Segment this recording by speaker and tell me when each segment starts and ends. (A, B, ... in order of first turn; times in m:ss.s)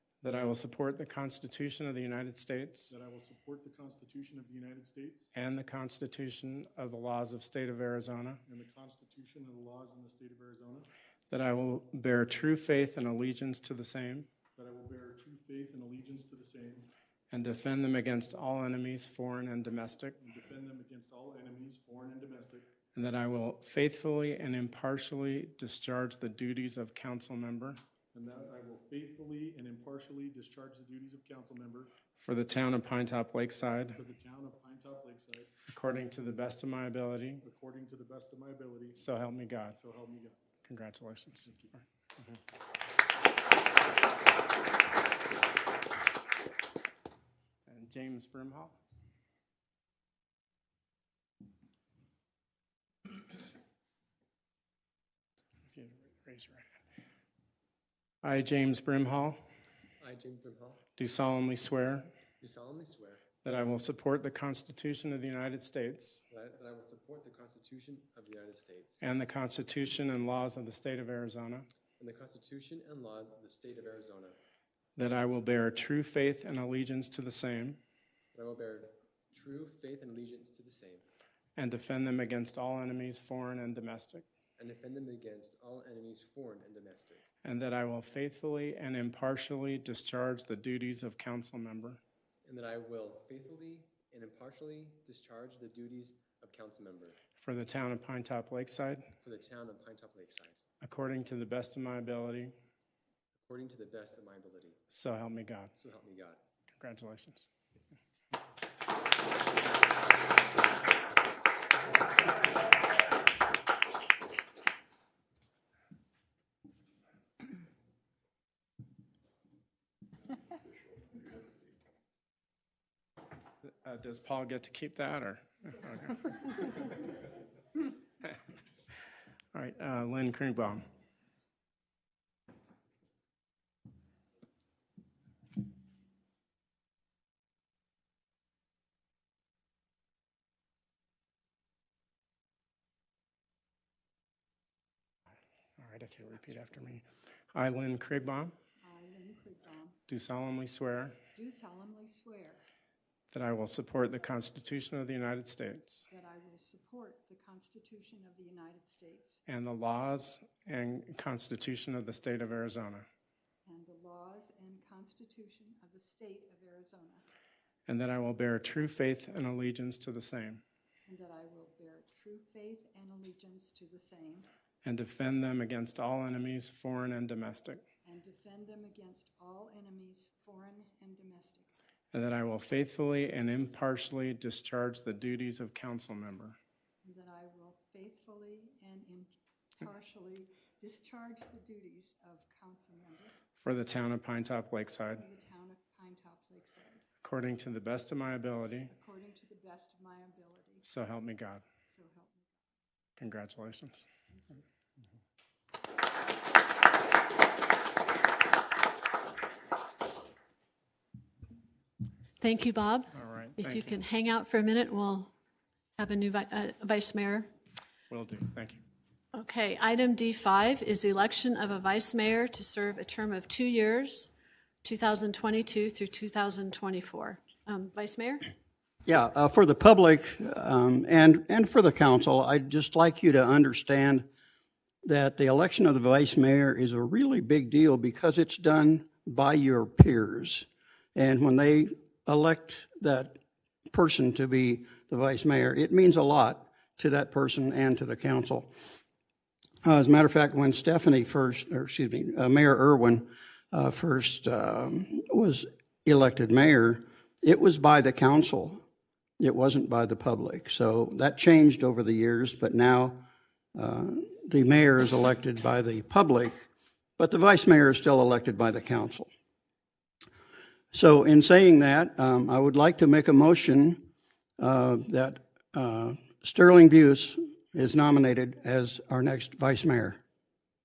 0:00.2-0:02.9 A
0:02.9-0:05.3 B
0:05.3-0:08.4 A
0:08.4-0:10.9 B
0:11.3-0:14.3 A
0:14.6-0:16.9 B
0:17.3-0:20.2 A
0:20.2-0:22.7 B
0:22.9-0:27.8 A
0:28.1-0:31.9 B
0:32.2-0:34.0 A
0:33.9-0:35.5 B
0:35.7-0:37.4 A
0:37.4-0:39.0 B
0:39.0-0:39.8 A
0:39.7-0:40.4 B
0:40.6-0:41.5 A
0:41.4-0:41.8 B
0:47.7-0:48.7 A
0:55.7-0:56.6 A
0:58.2-0:59.4 A
1:00.0-1:00.8 C
1:01.0-1:02.1 A
1:02.4-1:03.2 C
1:03.4-1:06.2 A
1:06.3-1:09.0 C
1:09.0-1:11.6 A
1:12.0-1:14.4 C
1:15.0-1:17.8 A
1:18.3-1:21.0 C
1:21.6-1:24.2 A
1:24.6-1:27.2 C
1:27.4-1:32.0 A
1:32.4-1:37.2 C
1:37.4-1:39.0 A
1:39.2-1:40.6 C
1:40.8-1:42.5 A
1:43.4-1:44.8 C
1:44.9-1:45.7 A
1:45.8-1:46.4 C
1:46.8-1:47.5 A
2:03.6-2:06.7 A
2:09.5-2:10.8 A
2:25.8-2:28.5 A
2:28.8-2:30.0 D
2:30.1-2:31.2 A
2:31.3-2:32.6 D
2:33.3-2:36.0 A
2:36.1-2:39.4 D
2:39.5-2:43.1 A
2:43.6-2:47.2 D
2:47.9-2:50.6 A
2:51.0-2:54.5 D
2:54.8-2:57.8 A
2:58.0-3:01.7 D
3:02.1-3:06.6 A
3:07.0-3:13.3 D
3:13.6-3:15.2 A
3:15.1-3:17.0 D
3:17.2-3:18.9 A
3:18.9-3:20.8 D
3:20.8-3:21.6 A
3:21.8-3:22.7 D
3:23.2-3:24.0 A
3:32.4-3:35.3 E
3:33.1-3:34.0 A
3:36.0-3:37.5 E
3:38.1-3:38.8 A
3:39.3-3:44.3 E
3:44.8-3:48.5 E
3:49.0-3:54.3 F
3:55.0-4:03.4 F
4:03.9-4:08.7 F
4:09.8-4:18.8 F
4:19.4-4:23.2 F
4:23.7-4:29.3 F
4:30.9-4:34.0 F
4:34.6-4:40.2 F